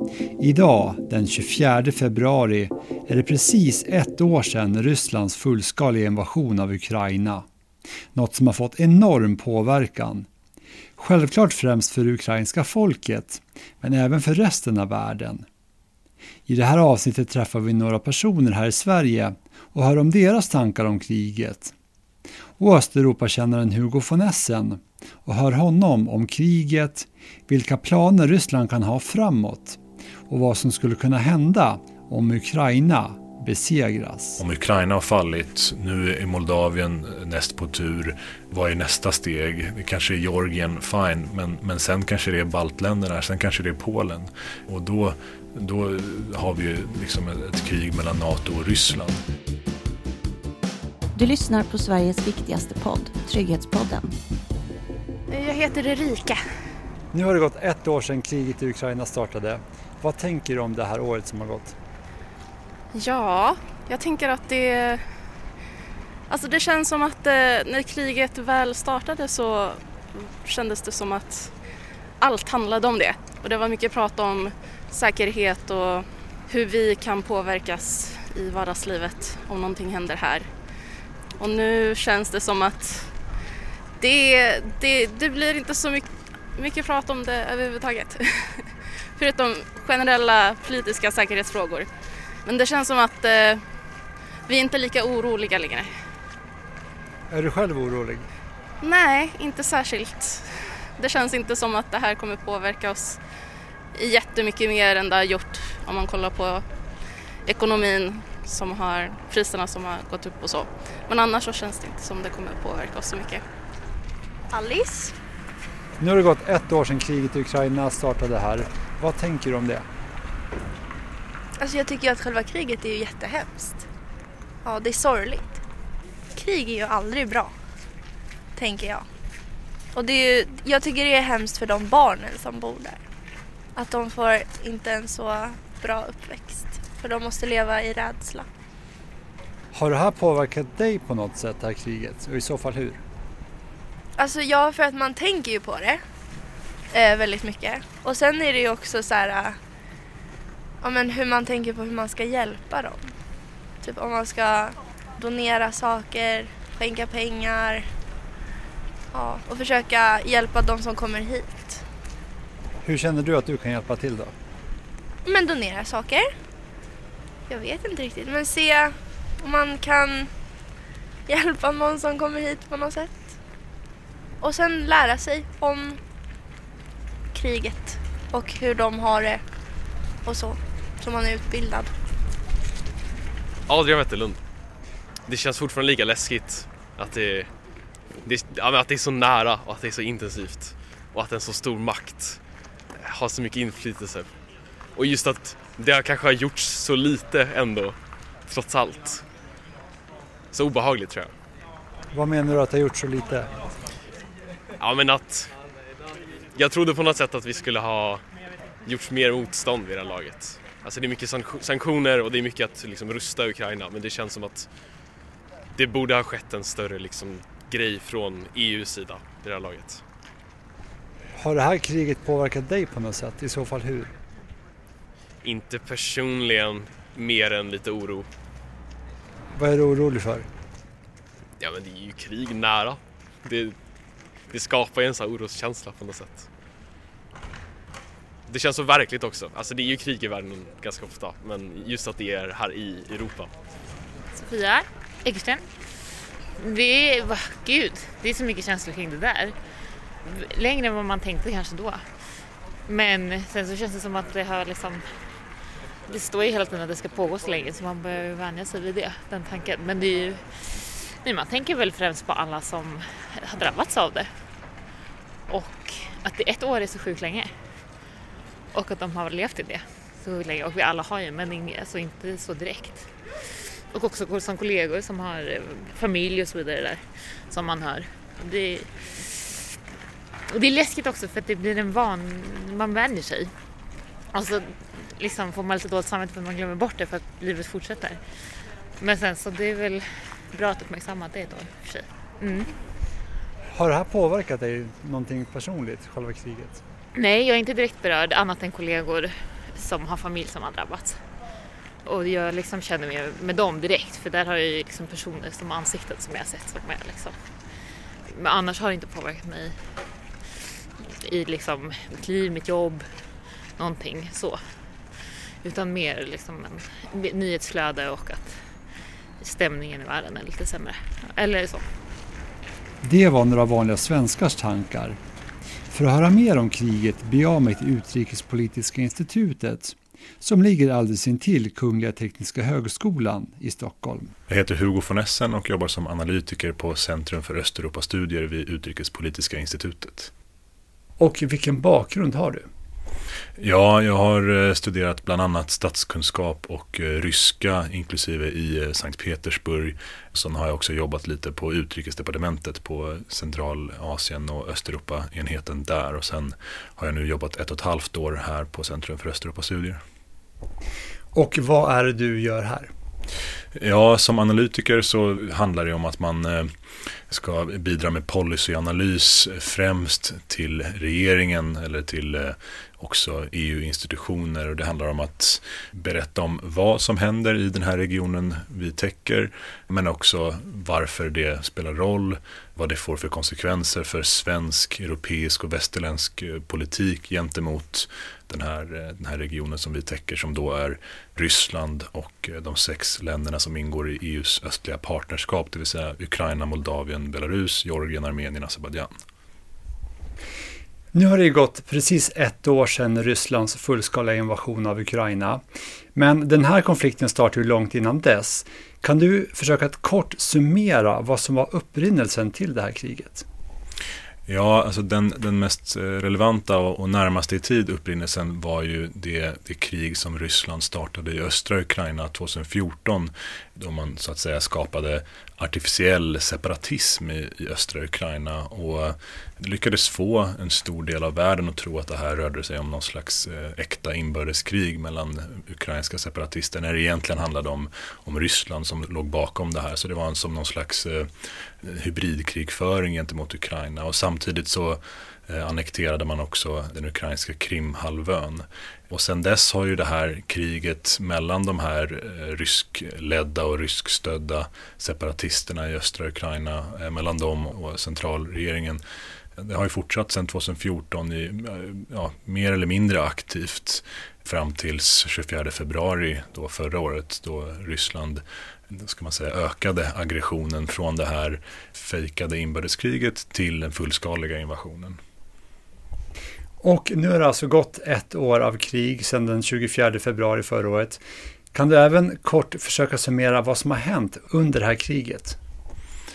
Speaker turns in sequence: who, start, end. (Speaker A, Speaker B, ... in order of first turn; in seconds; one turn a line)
Speaker A: 0.4-7.5
Speaker A: 8.1-10.3
Speaker A: 11.0-15.4
Speaker A: 16.5-21.7
Speaker A: 22.6-34.4
Speaker B: 34.4-49.2
Speaker C: 51.1-54.1
Speaker D: 55.3-56.4
Speaker A: 57.1-61.8
Speaker D: 62.9-65.0
Speaker D: 66.3-71.6
Speaker D: 72.2-80.5
Speaker D: 81.4-83.1
Speaker D: 84.0-91.9
Speaker D: 92.4-93.6
Speaker D: 94.5-95.9
Speaker A: 97.3-98.3
Speaker D: 98.8-103.2
Speaker D: 103.9-106.7
Speaker D: 107.4-113.4
Speaker E: 114.5-115.1
Speaker A: 116.0-119.8
Speaker E: 121.6-123.8
Speaker E: 124.6-125.6
Speaker E: 126.3-127.5
Speaker E: 128.6-129.1
Speaker E: 129.9-133.0
Speaker E: 133.7-138.5
Speaker A: 139.7-143.0
Speaker E: 144.2-146.0
Speaker E: 146.9-149.6
Speaker E: 150.8-153.1
Speaker E: 153.8-157.9
Speaker E: 159.1-161.8
Speaker A: 162.8-164.3
Speaker E: 165.2-166.3
Speaker E: 167.5-170.3
Speaker E: 171.3-173.2
Speaker E: 174.4-176.0
Speaker E: 177.3-179.4
Speaker E: 180.2-181.9
Speaker F: 183.7-184.4
Speaker F: 185.3-187.5
Speaker F: 188.2-192.4
Speaker F: 192.9-194.4
Speaker F: 194.9-199.2
Speaker F: 200.5-201.3
Speaker A: 202.1-203.5
Speaker F: 204.8-205.5
Speaker F: 206.5-208.2
Speaker F: 208.8-214.7
Speaker F: 215.7-220.0
Speaker A: 221.4-224.1
Speaker F: 225.4-228.3
Speaker A: 229.5-230.5
Speaker F: 231.6-233.8
Speaker F: 234.5-236.5
Speaker F: 238.5-243.5
Speaker G: 244.3-245.7
Speaker G: 246.6-249.6
Speaker G: 250.2-252.1
Speaker G: 252.9-255.1
Speaker G: 256.1-264.3
Speaker G: 265.5-267.5
Speaker G: 268.7-279.7
Speaker G: 280.5-283.5
Speaker G: 284.3-288.5
Speaker G: 289.0-292.8
Speaker A: 293.7-296.8
Speaker G: 297.1-301.2
Speaker G: 302.0-307.4
Speaker G: 308.3-309.9
Speaker G: 311.0-313.1
Speaker G: 313.8-314.6
Speaker G: 315.6-318.6
Speaker G: 319.4-321.9
Speaker A: 323.0-325.2
Speaker A: 325.9-334.3
Speaker B: 334.5-340.3
Speaker A: 341.2-342.7
Speaker B: 343.6-360.0
Speaker A: 361.3-362.9
Speaker B: 363.7-366.7
Speaker B: 367.3-399.1
Speaker A: 401.1-405.6
Speaker A: 406.1-413.4
Speaker B: 414.5-459.0
Speaker B: 459.6-475.2
Speaker A: 476.8-481.2
Speaker A: 481.7-485.6